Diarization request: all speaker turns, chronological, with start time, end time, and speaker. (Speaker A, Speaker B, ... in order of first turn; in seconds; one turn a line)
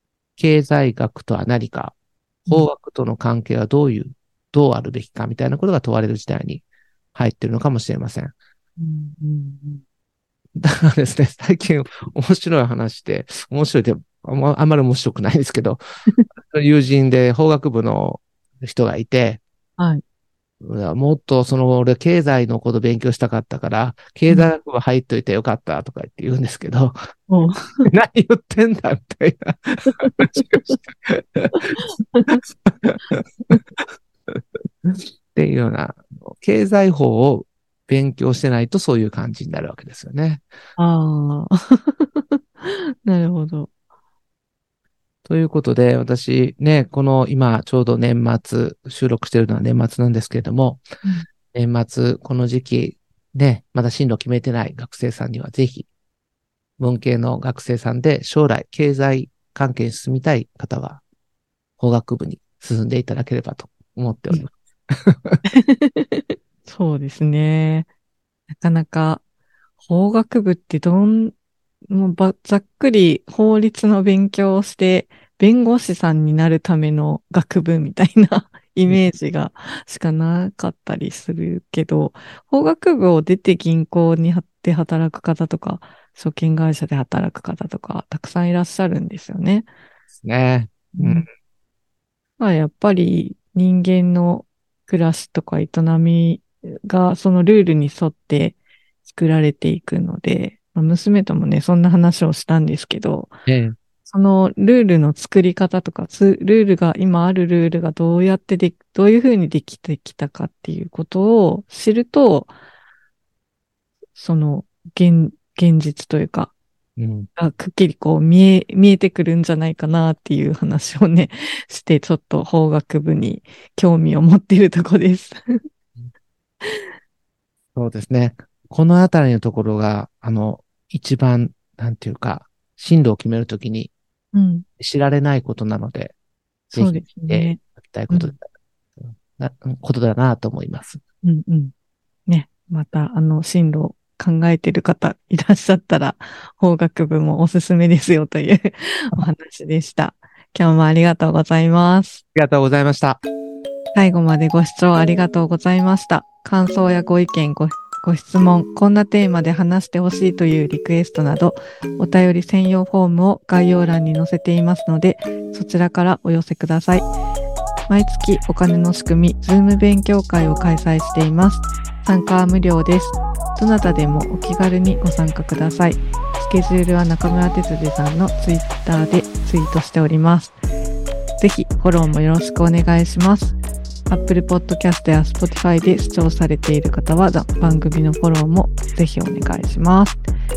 Speaker A: 0.4-2.0
Speaker A: 2.5-8.3
Speaker B: 8.8-9.8
Speaker A: 10.6-15.8
Speaker A: 16.4-19.4
Speaker A: 20.6-27.0
Speaker B: 27.3-27.9
Speaker A: 27.9-31.8
Speaker B: 30.0-30.8
Speaker B: 31.7-32.4
Speaker A: 32.3-33.5
Speaker A: 34.3-40.5
Speaker B: 40.8-43.7
Speaker A: 45.3-50.8
Speaker A: 51.5-55.9
Speaker A: 56.8-61.0
Speaker A: 61.8-65.4
Speaker B: 65.6-67.9
Speaker B: 68.6-69.2
Speaker B: 69.8-71.3
Speaker B: 71.9-89.7
Speaker A: 90.2-91.3
Speaker B: 91.0-91.3
Speaker B: 92.4-103.3
Speaker A: 103.5-103.8
Speaker B: 104.1-112.5
Speaker B: 114.2-116.5
Speaker A: 117.0-117.3
Speaker B: 117.4-125.4
Speaker A: 127.8-133.9
Speaker B: 134.3-134.7
Speaker A: 134.8-136.1
Speaker B: 136.7-138.3
Speaker A: 136.7-138.5
Speaker A: 139.0-141.0
Speaker B: 141.2-141.7
Speaker B: 142.3-152.2
Speaker A: 152.3-153.2
Speaker B: 153.9-167.1
Speaker B: 167.9-180.6
Speaker B: 181.4-183.6
Speaker B: 184.1-190.2